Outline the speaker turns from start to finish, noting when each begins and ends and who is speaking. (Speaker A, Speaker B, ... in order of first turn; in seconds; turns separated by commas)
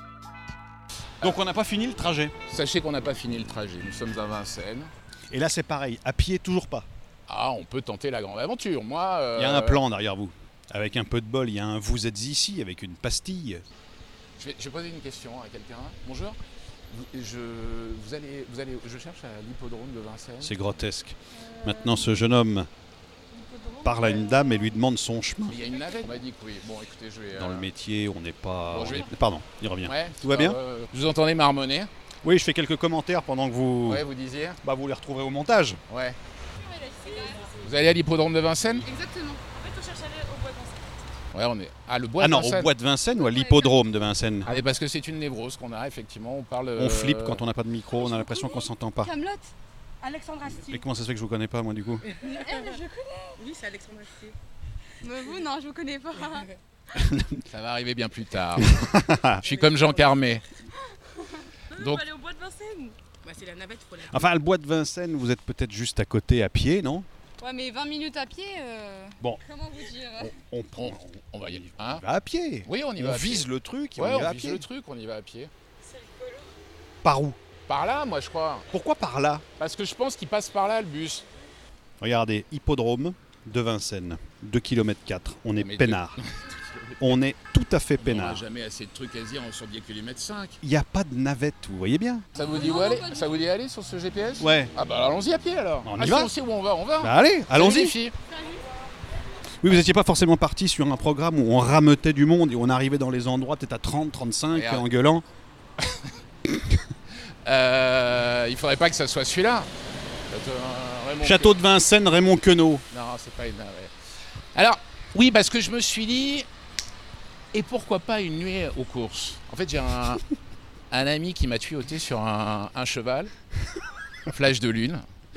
Speaker A: 1.2-2.4, Speaker B: 2.5-4.9, Speaker A: 5.3-6.9, Speaker B: 7.3-9.8, Speaker A: 9.3-13.6, Speaker B: 14.4-16.4, Speaker B: 16.9-20.6, Speaker A: 20.4-22.7, Speaker C: 23.3-24.4, Speaker A: 23.8-25.6, Speaker B: 25.5-27.7, Speaker A: 27.4-30.6, Speaker B: 28.7-29.1, Speaker B: 29.8-31.9, Speaker A: 32.2-34.0, Speaker B: 33.9-34.6, Speaker A: 34.6-35.8, Speaker B: 35.9-36.2, Speaker C: 36.6-37.6, Speaker B: 37.6-38.8, Speaker C: 38.8-40.9, Speaker B: 41.3-42.7, Speaker A: 42.2-44.5, Speaker C: 43.3-43.7, Speaker B: 44.5-47.4, Speaker A: 46.8-49.1, Speaker C: 49.0-50.8, Speaker A: 50.5-52.0, Speaker C: 52.1-54.3, Speaker C: 55.0-56.5, Speaker A: 56.9-57.4, Speaker B: 57.5-60.4, Speaker A: 58.6-59.4, Speaker C: 59.4-60.0, Speaker B: 61.7-62.0, Speaker C: 61.7-64.2, Speaker A: 64.1-67.1, Speaker C: 67.4-70.3, Speaker A: 70.2-74.7, Speaker B: 70.8-72.0, Speaker B: 72.6-75.5, Speaker C: 75.8-76.4, Speaker A: 77.0-77.4, Speaker B: 77.7-78.7, Speaker A: 78.7-79.4, Speaker B: 79.6-81.2, Speaker A: 82.0-86.2, Speaker B: 85.6-87.0, Speaker A: 87.0-88.4, Speaker B: 88.0-90.6, Speaker A: 90.6-92.3, Speaker B: 92.3-98.1, Speaker C: 92.5-93.3, Speaker A: 94.4-94.7, Speaker A: 95.8-96.3, Speaker A: 97.0-97.9, Speaker A: 99.6-105.2, Speaker B: 104.5-104.9, Speaker B: 107.4-109.7, Speaker B: 110.3-111.6, Speaker A: 111.2-112.8, Speaker B: 112.9-113.9, Speaker B: 114.5-116.5, Speaker B: 117.5-120.2, Speaker B: 120.9-123.3, Speaker B: 124.3-125.0